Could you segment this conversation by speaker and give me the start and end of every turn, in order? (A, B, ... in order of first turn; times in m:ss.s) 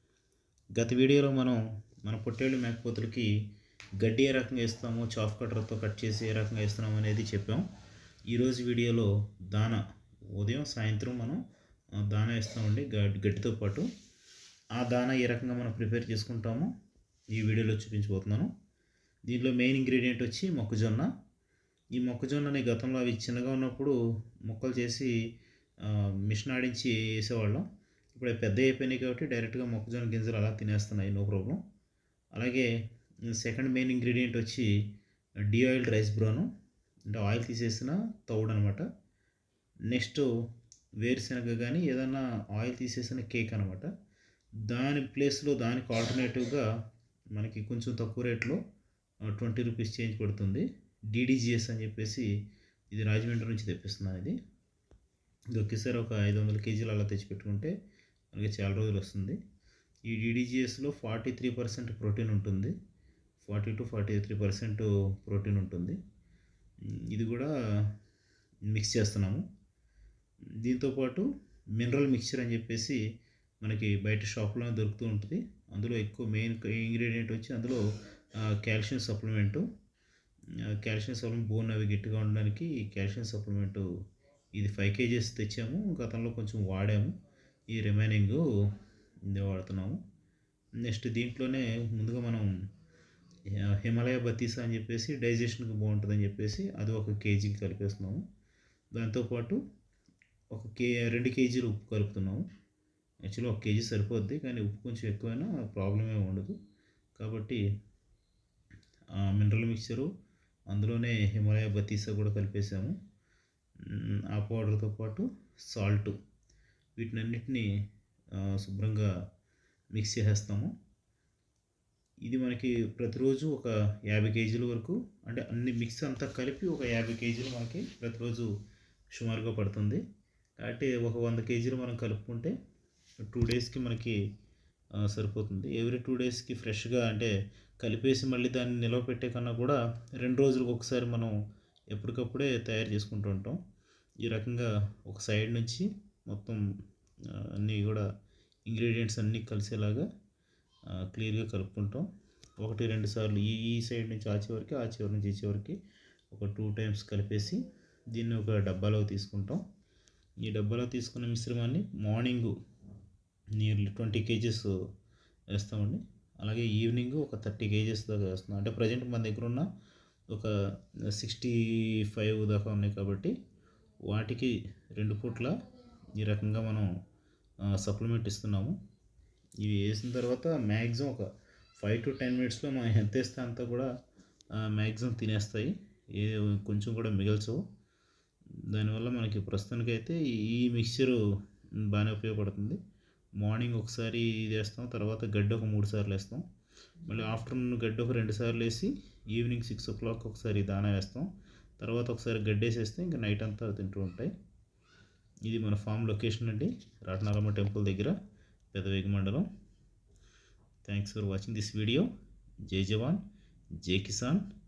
0:00.8-0:03.3 A
0:04.0-0:07.7 A
0:08.3-0:09.8 A
0:10.4-0:11.4 A
0:12.0-0:13.9 A
0:14.8-0:16.7 A
0:17.3-0:18.5 A
0:19.3-0:21.1 A
0:22.0-0:24.0 A
0:24.5-0:25.1 A
0:25.8-0:31.6 A
0:32.4-0:32.7 A
0:33.3-0:34.7 A
0:35.5-0:36.5 A
0:37.1-0:38.8 A
0:39.9-0:40.3 A
0:41.0-0:43.9 A
0:44.7-0:46.7 A
0:47.4-0:48.6 A
0:49.3-0:52.3 A
0:52.9-0:54.4 A
0:55.5-0:57.7 A
0:58.3-0:59.4 A
1:00.1-1:02.7 A
1:03.4-1:06.0 A
1:07.0-1:07.5 A
1:08.7-1:09.4 A
1:10.6-1:13.0 A
1:13.6-1:17.8 A
1:18.5-1:19.7 A
1:20.7-1:23.9 A
1:24.6-1:27.1 A
1:27.7-1:28.4 A
1:29.3-1:30.0 A
1:30.8-1:32.5 A
1:33.7-1:38.2 A
1:39.0-1:39.6 A
1:40.5-1:42.4 A
1:43.3-1:46.6 A
1:47.2-1:47.6 A
1:49.2-1:50.1 A
1:50.7-1:53.0 A
1:53.9-1:56.2 A
1:57.0-1:57.7 A
1:58.4-1:59.1 A
2:00.0-2:00.7 A
2:02.2-2:08.5 A
2:09.1-2:10.0 A
2:10.6-2:12.5 A
2:13.3-2:14.2 A
2:15.0-2:21.4 A
2:21.9-2:23.6 A
2:24.2-2:26.6 A
2:27.3-2:28.0 A
2:28.7-2:30.1 A
2:31.1-2:32.1 A
2:32.6-2:35.8 A
2:36.3-2:37.6 A
2:38.1-2:39.6 A
2:40.4-2:42.5 A
2:43.6-2:44.7 A
2:45.6-2:49.7 A
2:51.1-2:53.3 A
2:54.1-2:55.6 A
2:56.1-2:56.9 A
2:57.7-2:58.8 A
2:59.6-3:01.3 A
3:01.8-3:03.9 A
3:04.6-3:07.6 A
3:08.7-3:11.2 A
3:11.9-3:12.8 A
3:13.4-3:16.4 A
3:17.0-3:24.3 A
3:25.4-3:28.2 A
3:28.7-3:29.5 A
3:30.9-3:32.1 A
3:32.7-3:33.2 A
3:33.8-3:34.4 A